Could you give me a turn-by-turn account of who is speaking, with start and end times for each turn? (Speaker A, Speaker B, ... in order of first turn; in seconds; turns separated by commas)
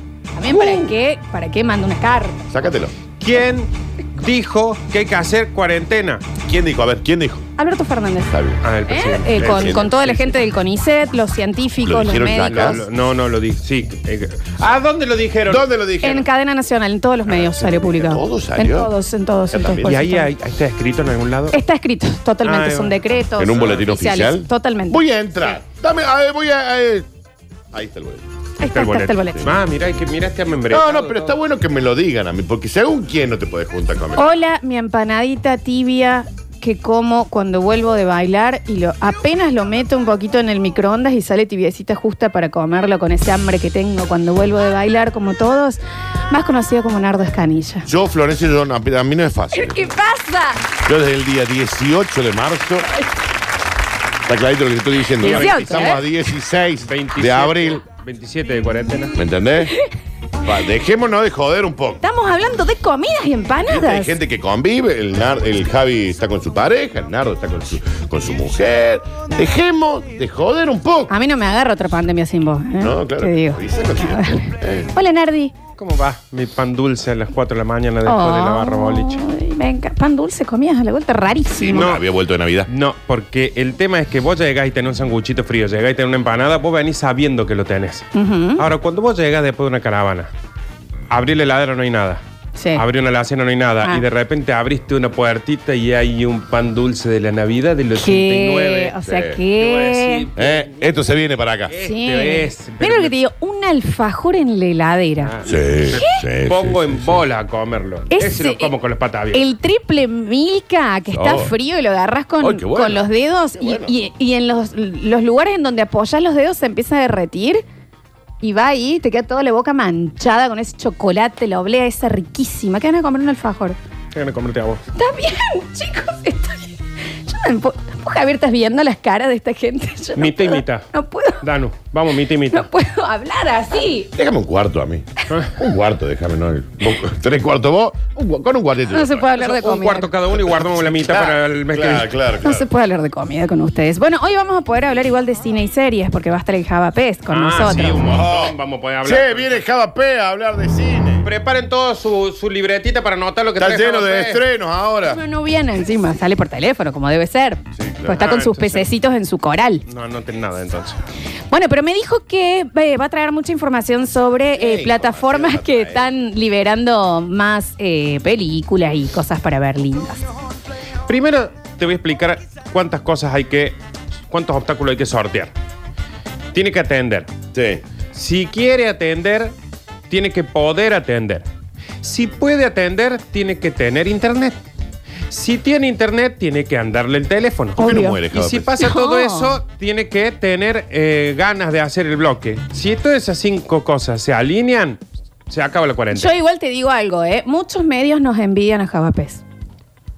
Speaker A: 0.3-2.5, Speaker B: 0.5-0.8, Speaker B: 2.5-2.9, Speaker C: 3.2-6.2, Speaker B: 6.4-7.5, Speaker A: 7.6-8.3, Speaker B: 8.3-8.6, Speaker C: 8.6-10.4, Speaker A: 8.9-12.8, Speaker B: 9.4-9.9, Speaker B: 11.8-12.8, Speaker C: 12.4-15.6, Speaker B: 15.5-16.2, Speaker A: 16.0-20.3, Speaker C: 17.3-18.0, Speaker B: 18.0-18.9, Speaker B: 19.5-20.1, Speaker C: 19.8-21.6, Speaker A: 21.5-25.0, Speaker C: 22.4-23.0, Speaker B: 23.4-27.1, Speaker B: 27.7-28.2, Speaker A: 28.6-29.5, Speaker C: 28.6-31.3, Speaker B: 30.7-34.3, Speaker A: 34.1-47.9, Speaker B: 47.9-49.9, Speaker A: 49.5-50.6, Speaker B: 50.8-52.9, Speaker B: 54.2-57.8, Speaker C: 55.2-56.0, Speaker A: 55.2-56.0, Speaker C: 56.9-59.1, Speaker B: 59.1-59.7, Speaker B: 60.4-62.0, Speaker A: 62.0-64.2, Speaker B: 63.6-71.1, Speaker A: 71.1-75.5, Speaker B: 72.8-74.9, Speaker C: 75.8-79.2, Speaker A: 78.0-81.9, Speaker B: 81.6-82.7, Speaker C: 81.7-82.0, Speaker C: 82.7-90.3, Speaker A: 88.1-88.6, Speaker C: 91.1-92.2, Speaker A: 92.5-92.8, Speaker C: 92.7-100.9, Speaker A: 97.9-100.3, Speaker B: 99.0-99.4, Speaker B: 100.3-101.7, Speaker C: 101.7-103.2, Speaker A: 101.8-106.2, Speaker C: 105.2-109.4, Speaker B: 105.4-107.2, Speaker A: 108.1-108.7, Speaker A: 109.3-117.6, Speaker B: 111.1-111.5, Speaker B: 112.4-113.0, Speaker B: 113.6-113.9, Speaker A: 118.4-123.8, Speaker C: 124.1-124.8, Speaker A: 124.9-131.4, Speaker C: 130.2-130.9, Speaker C: 131.4-132.7, Speaker A: 132.5-134.1, Speaker B: 134.1-139.2, Speaker A: 138.9-140.1, Speaker C: 139.2-142.1, Speaker B: 140.3-142.7, Speaker A: 142.4-148.0, Speaker C: 147.3-149.6, Speaker B: 147.7-151.3, Speaker C: 151.2-154.4, Speaker B: 153.6-155.2, Speaker A: 155.0-159.8, Speaker B: 157.7-158.4, Speaker C: 158.1-158.9, Speaker C: 159.8-161.0, Speaker A: 161.5-170.2, Speaker B: 164.5-166.1, Speaker C: 171.1-173.8, Speaker C: 174.3-175.5, Speaker C: 176.5-177.3, Speaker B: 177.5-177.8, Speaker C: 178.1-179.5, Speaker C: 180.1-181.4, Speaker C: 182.0-184.6, Speaker C: 185.3-196.3, Speaker A: 187.8-188.2, Speaker B: 187.8-188.8, Speaker A: 188.8-189.6, Speaker A: 196.1-199.4